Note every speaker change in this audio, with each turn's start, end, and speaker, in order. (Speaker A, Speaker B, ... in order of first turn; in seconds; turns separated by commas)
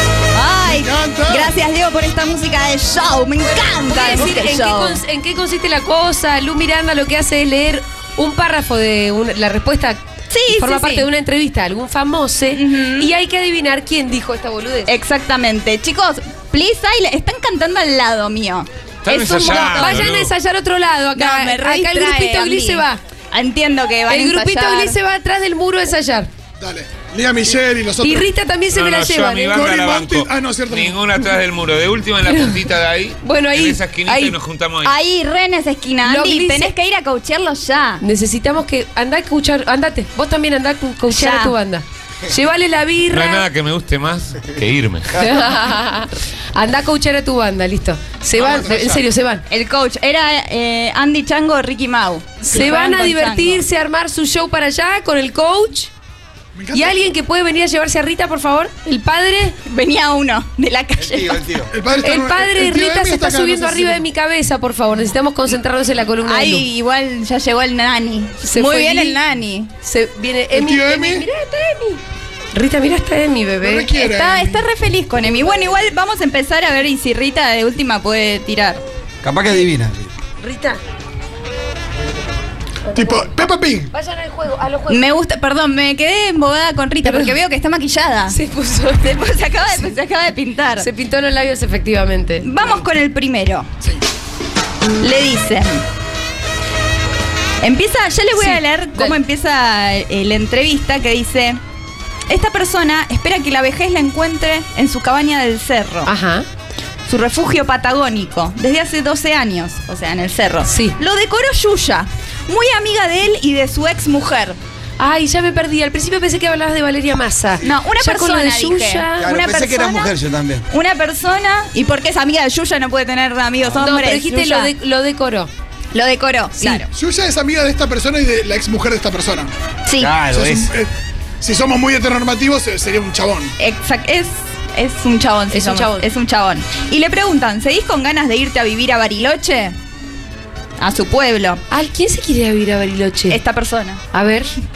Speaker A: 0.3-5.0, Speaker B: 0.7-1.5, Speaker C: 3.8-14.9, Speaker A: 10.3-11.1, Speaker A: 12.5-13.1, Speaker A: 14.9-20.0, Speaker D: 19.1-20.3, Speaker C: 19.4-23.0, Speaker A: 21.2-25.0, Speaker C: 24.1-26.3, Speaker B: 26.6-28.3, Speaker C: 28.0-29.7, Speaker D: 28.7-35.0, Speaker B: 29.5-31.1, Speaker C: 32.2-32.6, Speaker C: 33.2-34.4, Speaker A: 34.8-38.0, Speaker C: 36.0-36.7, Speaker C: 38.0-43.5, Speaker A: 41.1-41.6, Speaker D: 43.1-45.1, Speaker C: 45.1-49.4, Speaker B: 48.4-49.0, Speaker A: 49.5-53.6, Speaker C: 52.4-55.9, Speaker B: 56.5-57.1, Speaker C: 56.7-59.6, Speaker A: 59.6-61.5, Speaker E: 61.0-61.7, Speaker B: 61.7-64.0, Speaker C: 62.0-66.7, Speaker A: 66.2-69.7, Speaker C: 68.4-69.2, Speaker C: 69.8-72.0, Speaker B: 70.5-71.3, Speaker C: 72.5-73.9, Speaker B: 73.6-74.7, Speaker A: 73.9-78.8, Speaker E: 79.2-80.1, Speaker C: 80.4-80.8, Speaker C: 82.9-83.3, Speaker B: 82.9-83.9, Speaker C: 83.9-85.1, Speaker A: 84.9-88.4, Speaker C: 87.0-87.4, Speaker C: 88.3-89.8, Speaker A: 89.0-90.9, Speaker C: 90.8-92.5, Speaker A: 92.4-93.7, Speaker A: 95.0-95.8, Speaker A: 97.6-101.6, Speaker C: 98.4-99.2, Speaker A: 102.3-106.1, Speaker C: 106.1-106.5, Speaker A: 107.1-114.6, Speaker C: 110.6-111.0, Speaker C: 115.0-119.3, Speaker A: 117.6-120.2, Speaker E: 119.2-120.6, Speaker A: 120.7-124.7, Speaker C: 123.8-125.5, Speaker A: 125.9-126.9, Speaker B: 126.9-129.5, Speaker A: 129.9-130.2, Speaker E: 130.0-130.7, Speaker B: 130.2-133.5, Speaker A: 133.6-139.8, Speaker C: 135.5-136.1, Speaker A: 140.8-141.6, Speaker C: 141.7-143.4, Speaker A: 143.3-144.0, Speaker C: 144.1-144.5